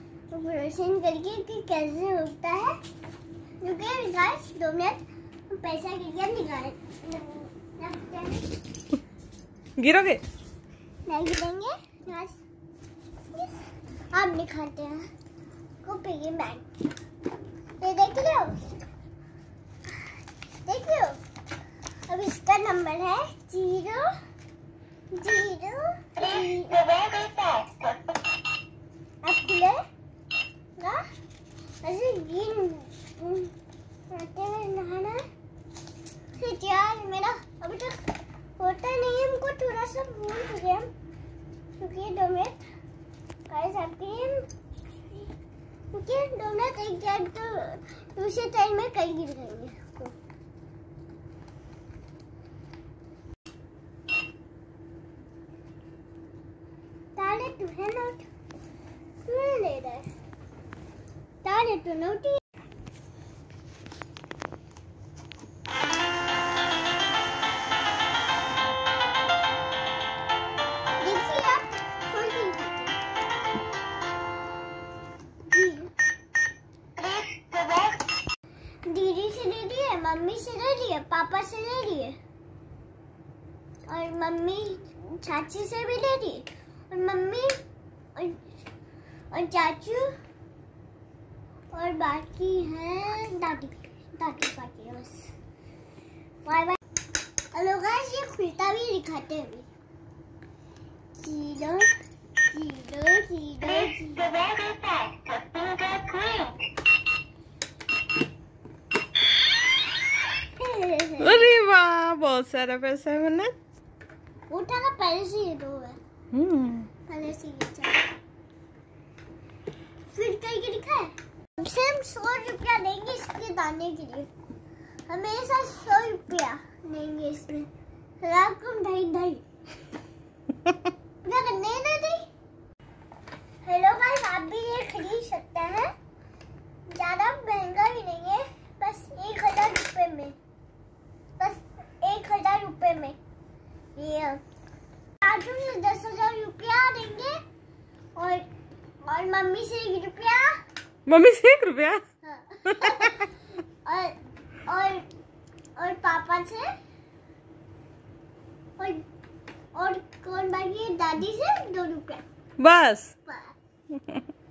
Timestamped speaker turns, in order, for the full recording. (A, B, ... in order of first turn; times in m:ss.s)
0:00.3-0:02.8 A
0:03.6-0:08.5 A
0:09.8-0:10.2 B
0:11.0-0:12.4 A
0:13.3-0:13.6 A
0:14.1-0:15.0 A
0:15.8-0:16.6 A
0:17.8-0:18.6 A
0:20.6-0:21.2 A
0:22.1-0:24.1 A
0:25.1-0:27.6 A
0:29.2-0:29.8 A
0:30.8-0:31.0 A
0:31.8-0:33.5 A
0:34.1-0:35.2 A
0:36.3-0:40.9 A
0:41.8-0:42.6 A
0:43.5-0:44.5 A
0:45.9-0:50.1 A
0:57.2-0:58.2 A
0:59.2-1:00.1 A
1:01.4-1:02.4 A
1:11.0-1:13.0 A
1:15.5-1:15.9 A
1:18.9-1:22.2 A
1:23.9-1:27.6 A
1:28.1-1:28.4 A
1:29.3-1:30.2 A
1:31.7-1:35.3 A
1:36.4-1:36.8 A
1:37.5-1:39.7 A
1:41.2-1:41.9 A
1:42.5-1:44.6 A
1:50.6-1:51.5 A
1:51.2-1:53.5 B
1:54.5-1:56.0 A
1:56.3-1:56.9 B
1:57.1-1:58.1 A
2:00.1-2:04.3 A
2:05.1-2:07.7 A
2:08.2-2:09.4 A
2:11.2-2:12.3 A
2:13.6-2:15.9 A
2:16.9-2:20.4 A
2:21.4-2:23.2 A
2:24.0-2:24.4 A
2:25.2-2:27.4 A
2:28.2-2:28.5 A
2:29.0-2:30.6 A
2:31.1-2:32.0 B
2:32.2-2:33.3 A
2:32.6-2:33.1 B
2:33.8-2:35.1 A
2:35.8-2:36.7 A
2:38.8-2:39.0 A
2:39.7-2:42.2 A
2:42.6-2:43.1 B
2:43.2-2:43.5 A